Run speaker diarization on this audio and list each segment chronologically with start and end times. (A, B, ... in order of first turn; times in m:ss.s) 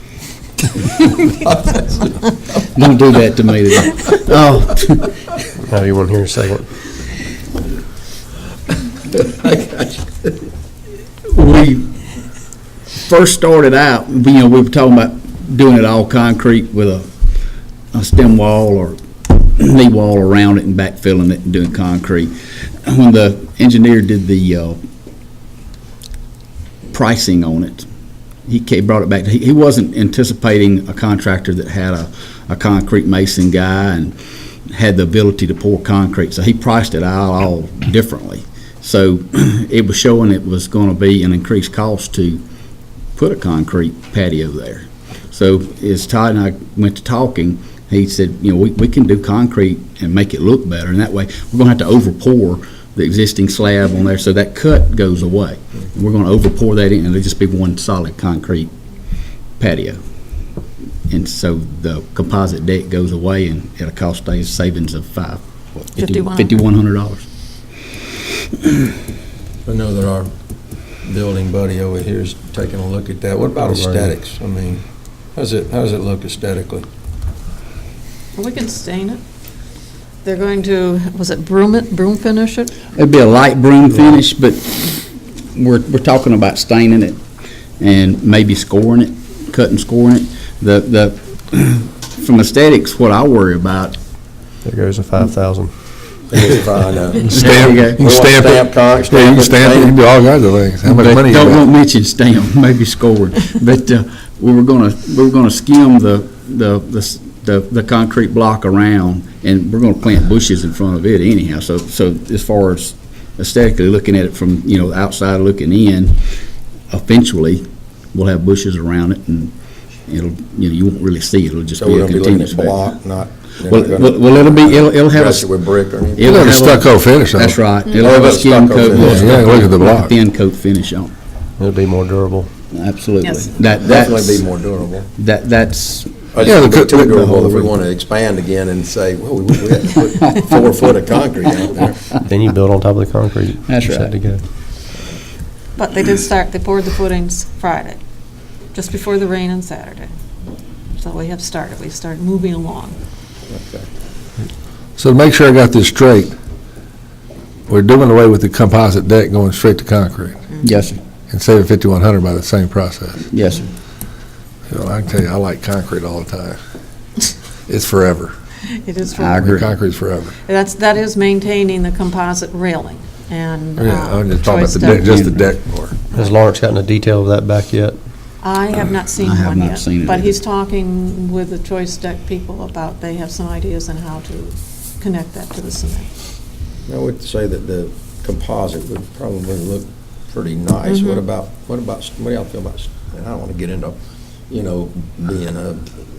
0:01.2-0:02.1 A
0:02.7-0:05.2 B
0:05.7-0:06.6 C
0:09.1-0:10.4 A
0:11.3-0:11.9 B
0:13.0-0:17.0 B
0:17.9-0:22.3 B
0:22.8-0:24.8 B
0:26.9-0:27.8 B
0:28.5-0:34.1 B
0:34.7-0:42.4 B
0:43.2-0:58.7 B
0:59.6-1:00.0 B
1:01.1-1:07.2 B
1:05.9-1:06.6 D
1:09.6-1:10.3 A
1:11.0-1:14.8 A
1:13.7-1:14.1 C
1:15.3-1:16.8 A
1:18.3-1:19.2 D
1:20.2-1:22.8 D
1:22.9-1:27.2 B
1:27.8-1:34.0 B
1:34.6-1:35.7 C
1:36.3-1:40.0 A
1:37.2-1:41.6 E
1:37.3-1:38.0 B
1:40.8-1:56.2 B
1:56.9-1:57.6 B
1:58.1-1:59.5 B
2:00.1-2:02.8 B
2:01.8-2:06.6 A
2:03.7-2:05.5 B
2:06.2-2:11.1 B
2:06.2-2:07.6 E
2:07.9-2:09.5 A
2:09.0-2:10.1 E
2:11.6-2:12.5 C
2:12.7-2:14.5 B
2:13.7-2:15.1 A
2:15.2-2:17.7 B
2:16.3-2:22.1 A
2:16.4-2:17.2 E
2:22.3-2:24.4 C
2:23.7-2:24.1 B
2:25.8-2:28.0 D
2:28.7-2:30.1 D
2:31.0-2:33.0 D
2:33.5-2:33.9 A
2:35.0-2:36.3 E
2:37.7-2:40.4 E
2:40.6-2:41.0 B
2:41.3-2:43.2 E
2:43.3-2:43.7 B
2:44.7-2:46.6 E
2:47.7-2:48.3 E
2:48.7-2:49.4 D
2:49.2-2:49.7 B
2:49.4-2:50.3 E
2:50.4-2:55.5 D
2:53.8-2:55.9 E
2:55.1-2:55.4 B
2:56.1-2:58.0 C
2:58.4-3:06.0 D
2:59.2-3:00.4 B
3:06.9-3:14.0 A
3:10.9-3:11.2 D
3:14.5-3:15.8 A